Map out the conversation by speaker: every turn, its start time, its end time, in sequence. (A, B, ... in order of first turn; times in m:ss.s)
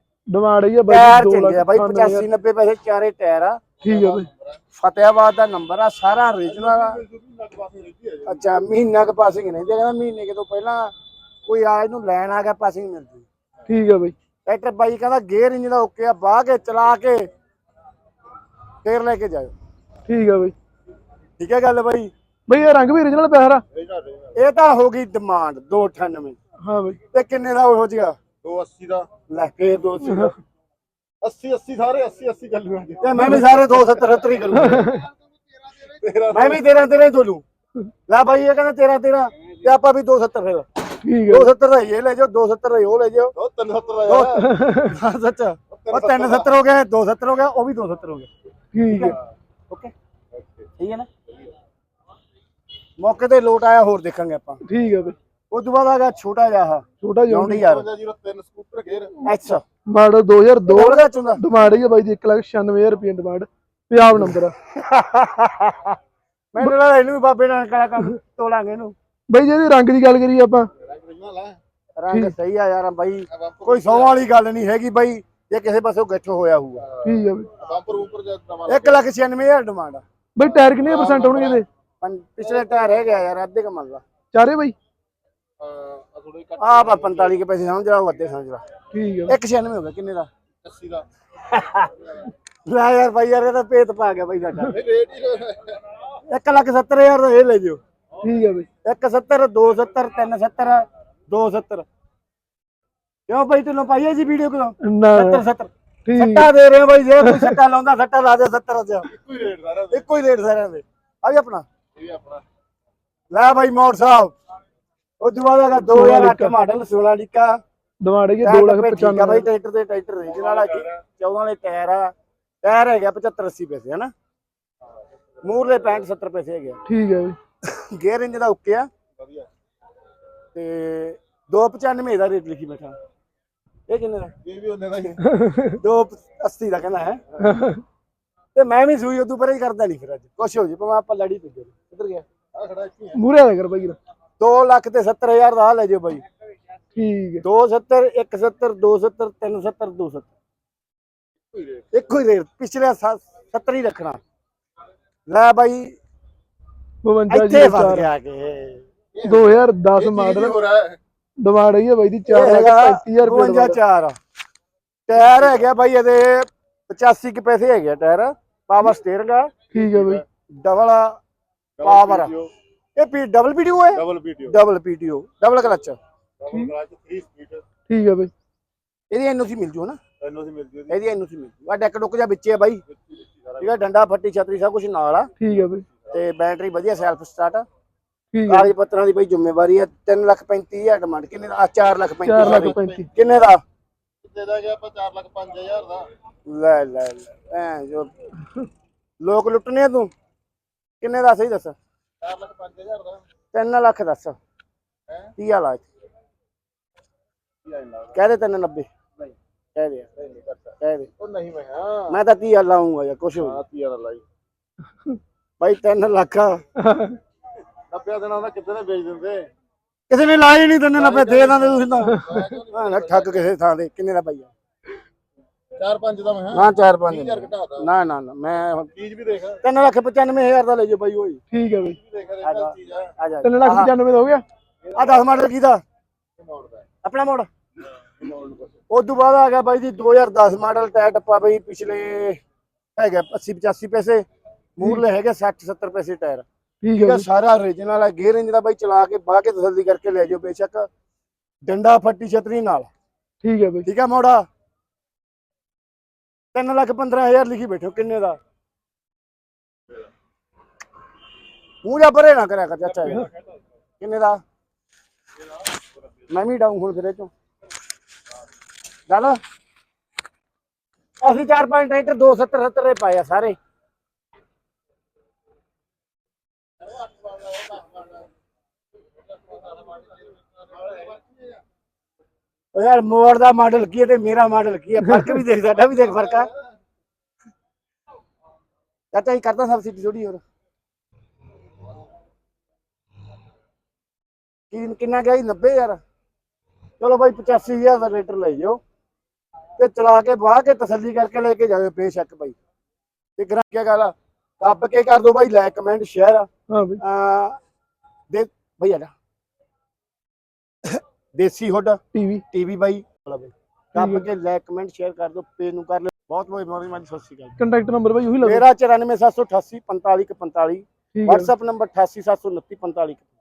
0:00.3-0:02.3 A
0:00.9-0:03.6 B
0:03.8-0:04.3 A
0:03.8-0:04.6 C
0:04.8-0:07.0 B
0:06.5-0:08.4 C
0:08.2-0:10.9 B
0:11.4-0:13.2 B
0:13.7-0:14.1 A
0:14.4-0:17.2 B
0:18.8-0:19.5 B
0:20.1-0:20.5 A
0:21.4-0:22.1 B
0:22.5-0:23.6 A
0:23.7-0:24.3 C
0:24.3-0:26.4 B
0:26.6-0:27.0 A
0:27.1-0:28.1 B
0:28.4-0:29.1 C
0:29.3-0:30.3 B
0:31.2-0:33.5 C
0:33.0-0:34.9 B
0:34.6-0:35.0 A
0:35.7-0:36.6 C
0:36.3-0:37.4 B
0:38.1-0:40.6 B
0:41.0-0:41.5 A
0:41.3-0:43.3 B
0:43.4-0:44.5 C
0:44.1-0:48.3 B
0:44.4-0:44.9 A
0:45.7-0:46.5 C
0:48.7-0:49.2 A
0:50.8-0:51.1 B
0:53.0-0:54.6 B
0:54.6-0:55.2 A
0:55.5-0:57.9 B
0:57.0-0:57.6 A
0:57.6-0:59.2 C
0:59.2-0:59.6 B
0:59.9-1:04.5 A
1:00.7-1:01.4 B
1:04.2-1:06.0 B
1:06.5-1:08.9 B
1:09.3-1:10.7 A
1:10.8-1:11.6 C
1:12.0-1:16.8 B
1:13.3-1:14.1 C
1:17.0-1:17.5 A
1:17.6-1:19.0 C
1:18.7-1:20.0 B
1:20.4-1:21.6 A
1:20.8-1:21.6 C
1:22.0-1:24.0 B
1:24.3-1:24.7 A
1:25.6-1:27.3 C
1:26.6-1:28.6 B
1:28.9-1:29.4 A
1:29.3-1:30.3 B
1:30.6-1:31.0 C
1:31.5-1:31.9 B
1:32.6-1:34.8 B
1:34.6-1:35.8 C
1:36.3-1:37.8 B
1:38.2-1:38.7 A
1:38.8-1:41.8 B
1:43.3-1:49.1 B
1:44.8-1:45.4 A
1:46.0-1:46.5 A
1:47.2-1:47.6 A
1:49.1-1:50.0 C
1:49.9-1:51.6 B
1:52.0-1:52.4 C
1:53.3-1:54.3 B
1:55.2-1:57.6 B
1:55.9-1:56.5 A
1:58.0-1:59.5 A
1:58.4-2:02.1 B
2:00.5-2:00.9 C
2:02.6-2:04.1 B
2:05.4-2:06.8 B
2:06.8-2:07.4 A
2:07.6-2:08.9 B
2:09.2-2:09.5 C
2:10.5-2:12.9 B
2:13.9-2:14.3 B
2:14.4-2:15.2 C
2:15.2-2:15.8 A
2:15.8-2:17.2 B
2:17.4-2:17.8 A
2:18.5-2:22.2 B
2:22.5-2:23.2 C
2:23.1-2:24.0 A
2:24.4-2:26.2 B
2:26.9-2:27.4 A
2:27.4-2:30.3 B
2:31.5-2:31.9 C
2:31.9-2:34.2 B
2:35.3-2:36.0 B
2:37.0-2:38.1 A
2:37.3-2:38.8 B
2:39.1-2:41.0 C
2:39.2-2:40.6 A
2:41.4-2:43.8 A
2:42.3-2:44.1 B
2:45.1-2:49.5 B
2:49.7-2:50.2 A
2:49.7-2:50.2 C
2:50.5-2:51.2 B
2:51.8-2:52.5 C
2:51.8-2:52.3 B
2:53.0-2:56.0 B
2:53.9-2:54.5 C
2:56.4-2:57.6 C
2:57.9-2:58.3 A
2:59.1-3:00.0 B
3:00.2-3:00.9 C
3:00.9-3:02.8 B
3:03.1-3:03.7 C
3:03.6-3:05.3 B
3:05.4-3:05.8 A
3:06.1-3:07.6 B
3:08.3-3:08.7 A
3:08.5-3:13.6 B
3:12.2-3:13.1 A
3:12.4-3:13.0 C
3:14.2-3:16.1 C
3:16.5-3:18.1 B
3:19.2-3:20.1 B
3:21.0-3:21.8 B
3:22.2-3:23.2 C
3:23.5-3:24.4 B
3:25.4-3:25.8 B
3:27.7-3:28.1 C
3:28.1-3:28.9 B
3:29.7-3:30.1 B
3:30.2-3:32.2 C
3:30.8-3:31.1 B
3:32.1-3:33.6 B
3:33.4-3:34.2 C
3:35.6-3:36.6 B
3:36.8-3:37.2 A
3:37.9-3:39.5 C
3:40.1-3:44.5 B
3:40.9-3:43.4 C
3:42.1-3:42.4 A
3:45.8-3:47.9 C
3:46.5-3:48.9 B
3:49.0-3:49.6 C
3:49.6-3:51.4 B
3:51.5-3:52.0 A
3:52.0-3:53.1 C
3:52.4-3:53.9 B
3:53.4-3:54.4 A
3:54.9-3:55.2 C
3:54.9-3:55.8 B
3:56.4-3:56.8 C
3:57.0-3:57.5 B
3:58.2-3:58.7 C
3:58.9-4:02.4 B
4:03.0-4:04.2 B
4:04.8-4:06.4 B
4:06.8-4:07.3 A
4:07.0-4:10.8 B
4:11.7-4:12.9 B
4:13.4-4:13.9 A
4:13.8-4:14.4 B
4:16.5-4:18.4 B
4:21.8-4:23.3 B
4:24.0-4:24.4 B
4:26.3-4:27.3 B
4:29.1-4:29.4 B
4:31.2-4:33.6 B
4:39.7-4:40.0 C
4:42.7-4:46.5 B
4:49.1-4:50.4 B
4:54.7-4:56.0 B
4:57.0-4:58.8 B
4:59.8-5:02.5 B
5:03.4-5:06.5 B
5:06.7-5:07.0 A
5:07.0-5:07.6 B
5:08.3-5:09.1 B
5:10.8-5:12.0 B
5:12.1-5:12.4 A
5:12.5-5:17.6 B
5:13.9-5:14.2 A
5:17.6-5:18.6 A
5:18.4-5:23.3 B
5:21.1-5:21.5 A